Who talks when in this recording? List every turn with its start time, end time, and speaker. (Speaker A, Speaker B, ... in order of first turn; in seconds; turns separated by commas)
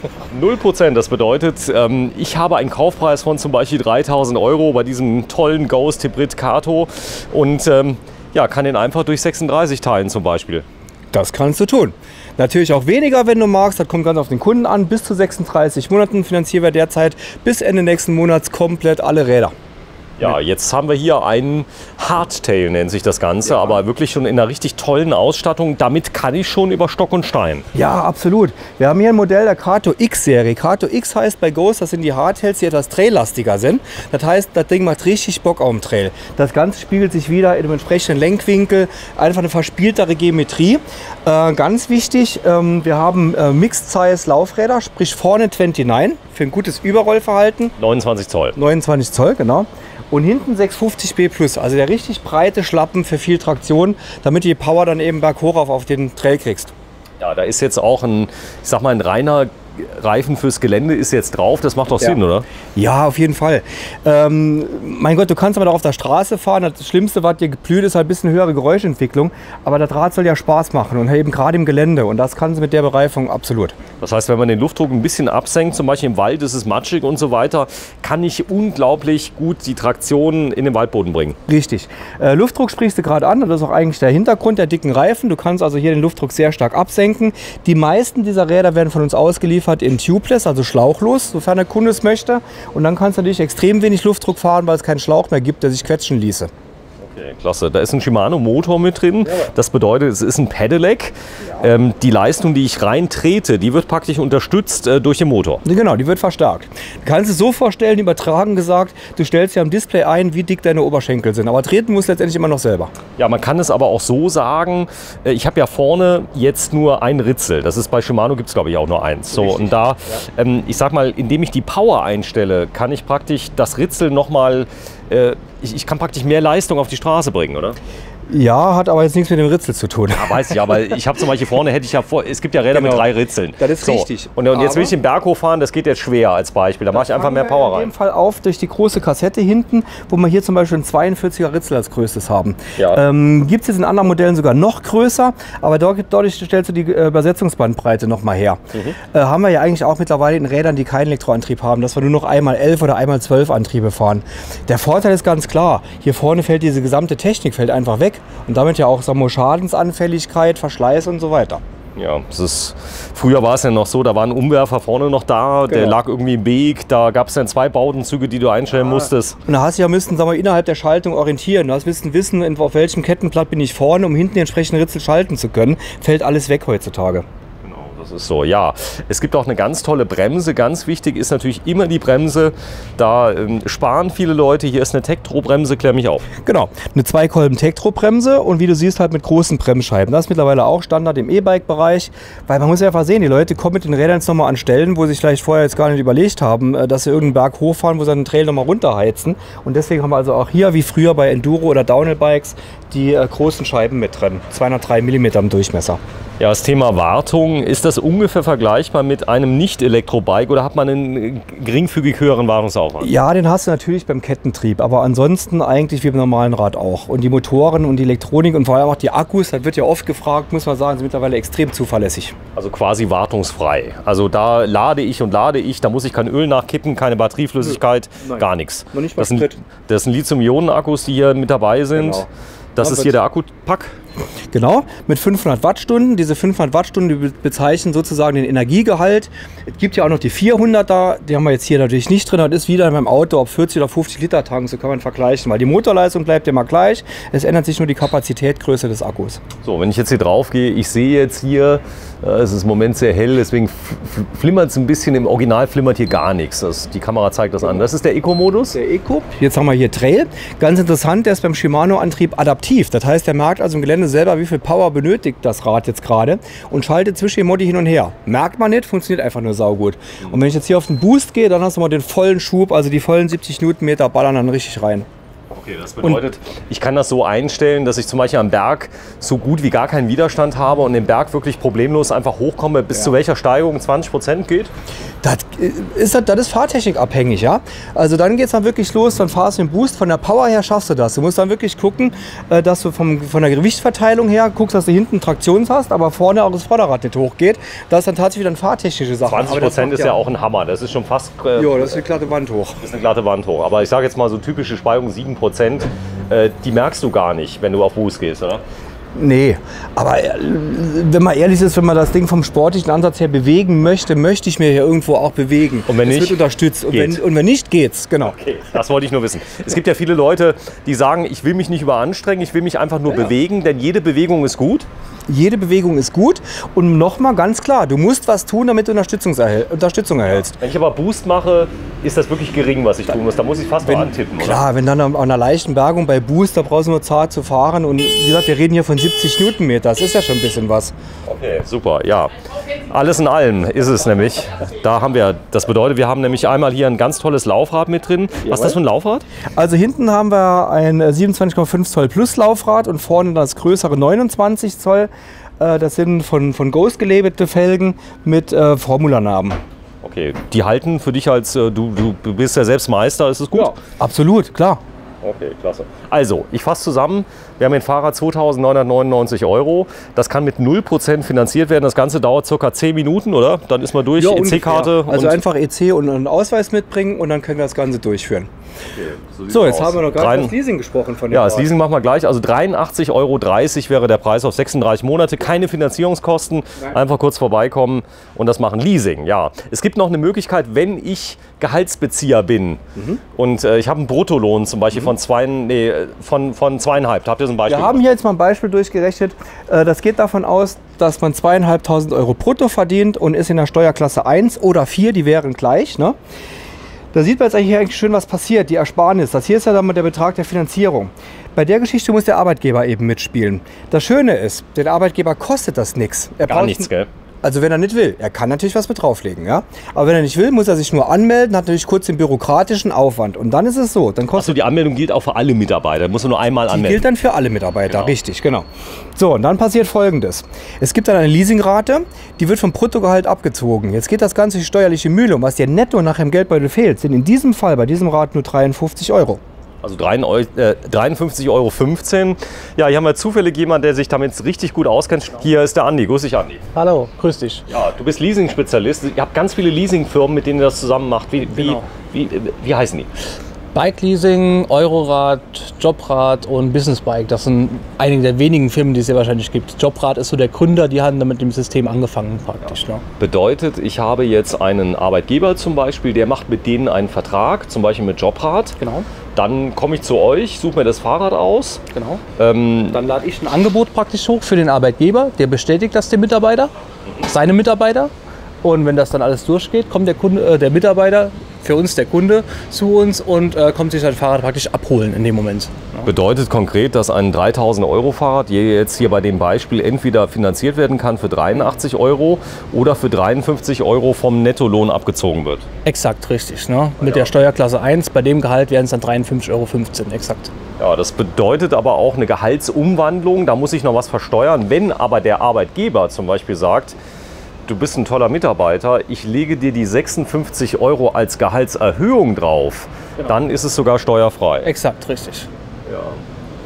Speaker A: 0.3-10.6, Speaker B: 11.1-19.5, Speaker A: 20.2-27.6, Speaker B: 23.4-23.7, Speaker B: 27.7-47.7, Speaker A: 47.8-48.5, Speaker B: 48.5-56.7, Speaker A: 57.2-62.5, Speaker B: 62.7-73.8, Speaker A: 74.0-81.3, Speaker B: 81.5-96.5, Speaker A: 97.0-105.6, Speaker B: 105.6-112.9, Speaker A: 113.2-127.8, Speaker B: 119.3-120.2, Speaker B: 128.3-130.9, Speaker A: 130.1-137.9, Speaker B: 132.7-134.9, Speaker B: 136.9-148.6, Speaker A: 142.8-143.0, Speaker B: 149.1-161.6, Speaker A: 161.9-169.4, Speaker B: 165.7-166.0, Speaker B: 169.4-177.2, Speaker A: 177.6-186.3, Speaker B: 186.4-206.0, Speaker A: 206.4-213.1, Speaker B: 213.0-222.3, Speaker A: 222.6-234.0, Speaker B: 227.6-229.5, Speaker B: 231.9-232.2, Speaker B: 232.8-233.2, Speaker B: 234.5-249.4, Speaker A: 249.6-258.8, Speaker B: 258.7-275.1, Speaker A: 275.5-284.7, Speaker B: 285.2-300.2, Speaker A: 299.2-302.0, Speaker B: 301.5-302.8, Speaker A: 302.8-308.6, Speaker B: 309.1-318.4, Speaker A: 315.9-317.2, Speaker A: 318.2-324.9, Speaker B: 325.3-330.6, Speaker A: 330.3-334.6, Speaker B: 333.8-340.9, Speaker A: 341.2-349.2, Speaker B: 348.4-348.8, Speaker B: 349.5-359.6, Speaker A: 360.0-363.7, Speaker B: 363.5-364.8, Speaker A: 365.2-375.4, Speaker B: 374.1-378.5, Speaker A: 378.9-380.5, Speaker B: 379.5-381.7, Speaker A: 381.3-392.8, Speaker B: 392.9-393.2, Speaker A: 393.3-398.0, Speaker B: 397.6-406.1, Speaker B: 407.1-416.9, Speaker A: 416.5-417.1, Speaker B: 417.4-424.6, Speaker A: 424.4-427.0, Speaker B: 426.7-439.4, Speaker A: 427.9-428.1, Speaker A: 439.8-446.6, Speaker C: 446.7-447.6, Speaker A: 447.7-453.1, Speaker C: 451.5-451.9, Speaker C: 453.7-463.0, Speaker A: 463.2-468.8, Speaker C: 468.8-469.1, Speaker A: 469.3-471.8, Speaker C: 471.9-472.2, Speaker A: 472.4-473.0, Speaker C: 472.9-478.1, Speaker C: 478.6-486.1, Speaker A: 486.1-495.6, Speaker C: 495.8-500.5, Speaker A: 497.0-497.3, Speaker A: 500.8-506.9, Speaker A: 507.6-514.7, Speaker C: 514.6-515.5, Speaker A: 515.9-516.1